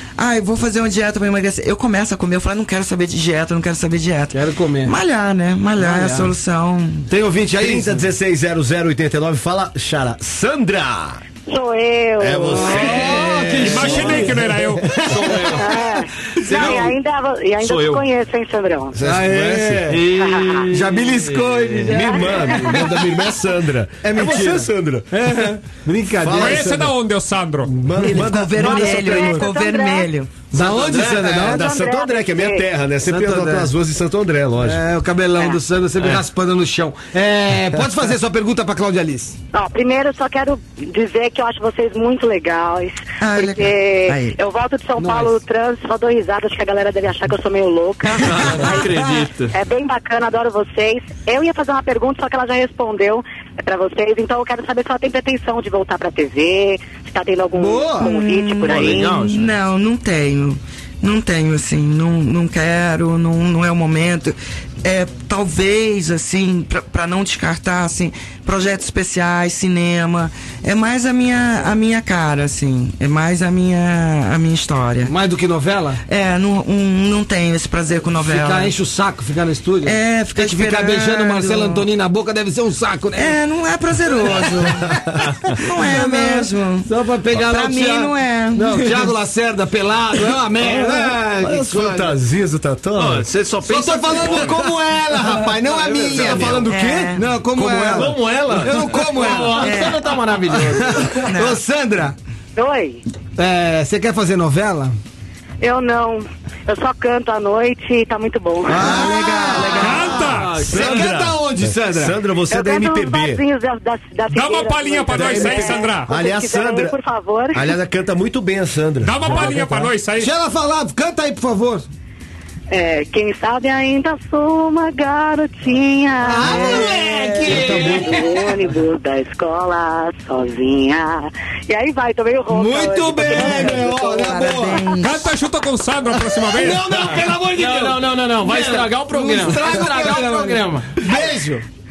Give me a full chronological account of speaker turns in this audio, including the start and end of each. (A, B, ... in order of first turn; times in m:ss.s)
0:00.2-0:07.1 A
0:04.3-0:04.9 B
0:05.8-0:06.3 B
0:07.1-0:08.1 B
0:07.6-0:11.2 C
0:11.5-0:13.0 D
0:12.2-0:14.3 C
0:12.5-0:15.8 B
0:13.6-0:14.9 E
0:15.1-0:15.8 F
0:15.6-0:19.0 D
0:16.4-0:16.9 F
0:16.4-0:16.9 B
0:17.6-0:18.0 F
0:18.9-0:20.0 C
0:19.0-0:20.0 B
0:19.9-0:22.0 F
0:20.1-0:20.7 D
0:20.7-0:23.1 B
0:21.9-0:25.5 C
0:21.9-0:22.8 D
0:24.0-0:26.9 B
0:26.2-0:26.8 C
0:26.3-0:27.7 E
0:27.6-0:29.6 C
0:28.0-0:30.3 A
0:28.6-0:30.1 D
0:30.5-0:31.7 B
0:30.6-0:31.5 F
0:31.2-0:34.8 C
0:31.5-0:32.7 D
0:33.0-0:33.7 B
0:34.6-0:39.3 B
0:39.5-0:59.2 D
0:43.2-0:44.4 A
0:45.0-0:45.3 B
0:48.2-0:49.5 F
0:48.2-0:48.9 A
0:57.5-0:58.1 B
0:58.0-1:15.1 A
0:58.6-0:59.6 F
1:15.0-1:16.0 B
1:16.1-1:18.7 A
1:18.2-1:23.4 B
1:19.8-1:21.8 A
1:23.1-1:29.0 A
1:24.3-1:24.9 B
1:25.7-1:32.1 B
1:30.6-1:33.3 C
1:33.0-1:34.7 F
1:33.6-1:42.2 B
1:34.2-1:34.5 C
1:35.6-1:36.6 F
1:36.0-1:38.2 C
1:36.6-1:37.2 A
1:37.8-1:41.2 F
1:39.5-1:40.1 A
1:41.2-1:41.6 A
1:42.6-1:43.0 D
1:43.4-1:45.0 B
1:45.6-1:49.2 D
1:48.6-1:52.2 B
1:48.7-1:50.3 A
1:49.8-1:50.8 E
1:50.2-1:51.3 F
1:50.6-1:53.4 C
1:52.5-1:57.7 D
1:54.3-1:56.1 E
1:55.1-1:57.0 C
1:57.5-1:59.9 C
1:59.0-2:00.3 E
1:59.3-2:01.8 B
2:02.7-2:14.7 D
2:06.2-2:08.6 B
2:06.5-2:06.9 A
2:07.4-2:08.0 F
2:12.5-2:14.9 B
2:13.3-2:15.3 A
2:15.0-2:17.0 E
2:16.2-2:21.6 B
2:17.1-2:21.0 F